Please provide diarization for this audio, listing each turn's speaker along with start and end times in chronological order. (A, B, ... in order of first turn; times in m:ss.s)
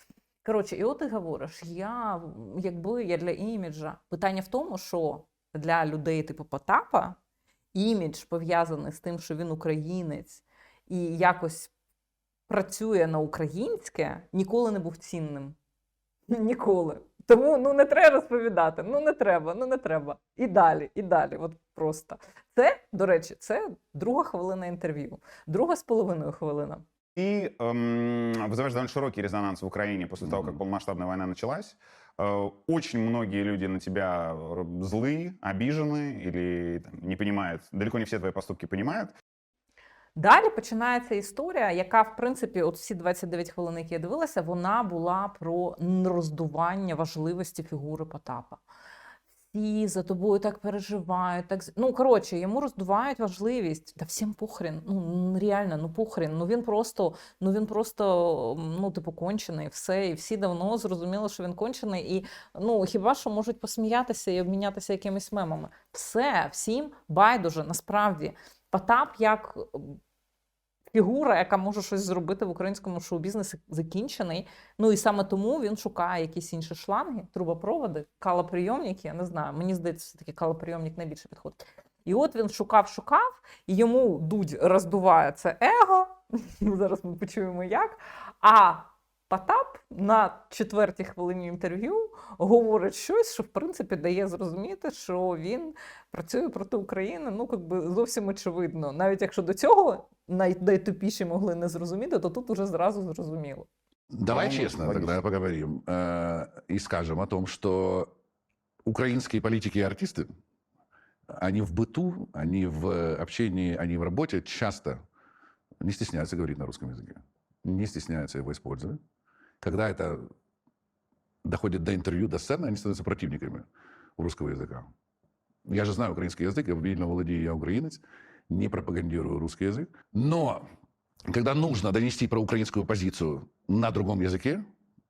0:00.4-0:07.2 A
0:07.7-0:11.7 A
0:12.5-0:15.6 A
0:16.3-0:26.8 A
0:27.2-0:39.2 B
0:40.2-0:48.6 A
0:49.5-1:10.0 A
1:10.9-1:43.7 A
1:44.1-1:48.1 C
1:44.3-1:45.2 B
1:48.8-1:50.3 C
1:51.4-1:55.0 C
1:55.8-1:59.0 C
1:59.6-2:00.2 C
2:01.4-2:03.7 C
2:04.2-2:04.9 C
2:05.7-2:10.7 C
2:11.3-2:14.6 C